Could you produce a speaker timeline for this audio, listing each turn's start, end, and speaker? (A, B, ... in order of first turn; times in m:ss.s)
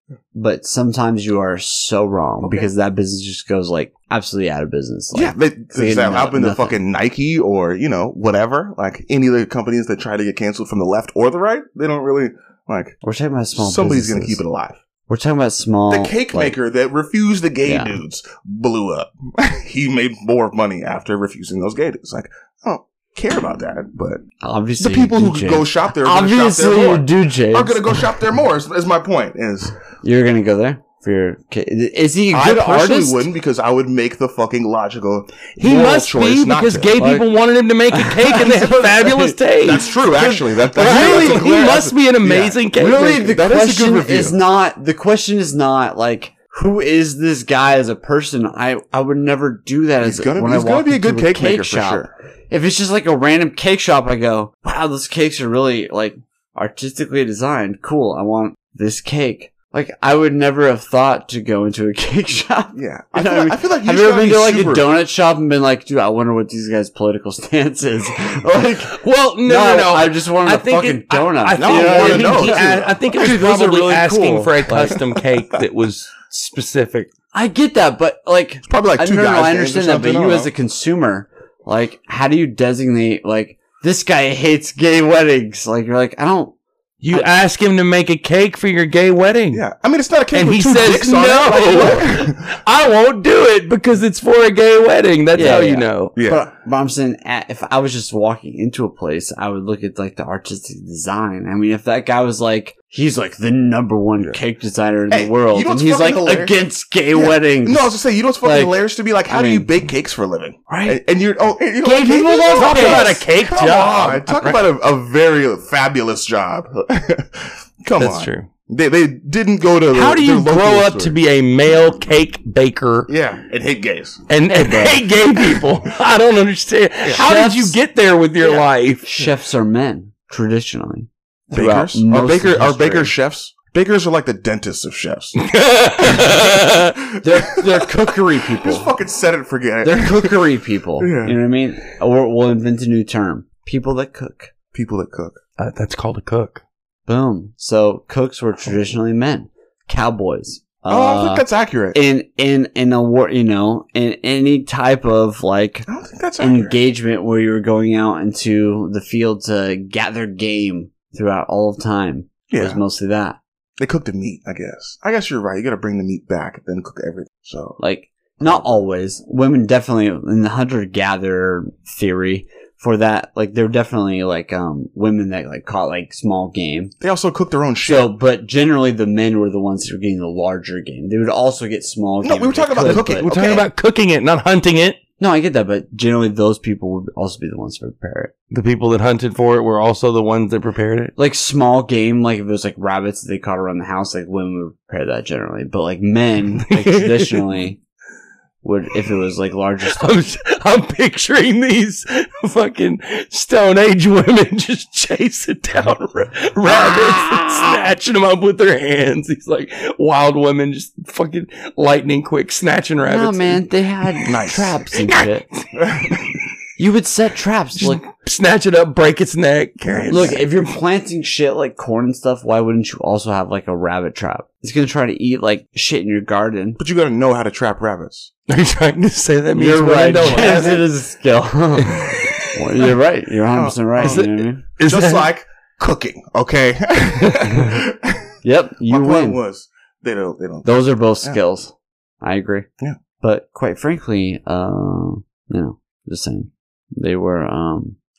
0:00.3-0:06.8 A
0:02.4-0:02.7 B
0:05.1-0:13.0 B
0:13.0-0:14.4 A
0:13.6-0:14.8 B
0:15.1-0:16.6 A
0:15.9-0:24.2 B
0:17.7-0:18.0 A
0:24.4-0:28.1 A
0:24.8-0:29.8 B
0:30.0-0:33.3 A
0:32.3-0:37.0 B
0:35.6-0:40.0 C
0:37.0-0:37.3 A
0:37.9-0:39.4 A
0:39.6-0:44.4 B
0:40.0-0:41.5 A
0:40.7-0:43.3 C
0:42.8-1:12.7 A
0:50.0-0:52.1 B
1:02.8-1:04.9 B
1:09.0-1:17.1 C
1:11.6-1:15.6 B
1:13.3-1:13.9 A
1:14.5-1:15.0 A
1:17.3-1:26.6 A
1:18.7-1:20.5 B
1:27.0-1:29.6 C
1:29.5-1:32.5 B
1:30.3-1:36.2 C
1:35.3-1:49.9 A
1:36.2-1:36.5 B
1:45.1-1:46.6 B
1:47.1-2:01.2 B
1:50.7-1:51.0 A
1:51.8-1:53.2 A
1:52.5-1:54.6 C
1:58.0-1:58.5 C
1:59.9-2:03.1 C
2:03.1-2:05.7 B
2:04.3-2:09.0 C
2:07.0-2:07.3 B
2:07.1-2:07.8 A
2:08.5-2:13.1 A
2:11.5-2:15.4 B
2:15.4-2:17.0 C
2:16.0-2:21.4 B
2:17.2-2:18.9 A
2:19.8-2:24.5 A
2:24.7-2:25.4 B
2:25.6-2:26.6 C
2:27.1-2:35.9 A
2:30.9-2:32.0 B
2:35.9-2:36.8 B
2:36.4-2:43.4 A
2:42.5-2:42.8 B
2:43.8-2:47.8 B
2:47.8-2:57.0 A
2:48.4-2:48.8 B
2:57.0-2:58.2 B
2:57.8-3:03.3 A
3:02.2-3:03.7 B
3:02.8-3:05.0 C
3:05.2-3:08.3 A
3:08.5-3:11.1 C
3:11.2-3:17.8 A
3:16.7-3:17.6 C
3:18.6-3:20.2 A
3:19.9-3:33.6 C
3:26.6-3:27.8 A
3:33.0-3:35.5 A
3:34.3-3:34.8 B
3:35.0-3:35.6 C
3:35.8-3:36.3 B
3:36.8-3:38.0 A
3:37.8-3:40.5 C
3:39.8-3:40.4 B
3:40.1-3:46.8 A
3:46.8-3:48.3 B
3:48.5-3:50.8 C
3:49.6-3:54.6 A
3:50.2-3:50.9 B
3:51.8-3:52.3 C
3:53.5-3:54.3 B
3:54.0-3:55.3 C
3:54.8-3:58.4 B
3:57.3-3:57.5 C
3:58.4-3:59.4 A
3:58.9-4:01.4 B
4:00.6-4:02.7 A
4:03.2-4:08.0 A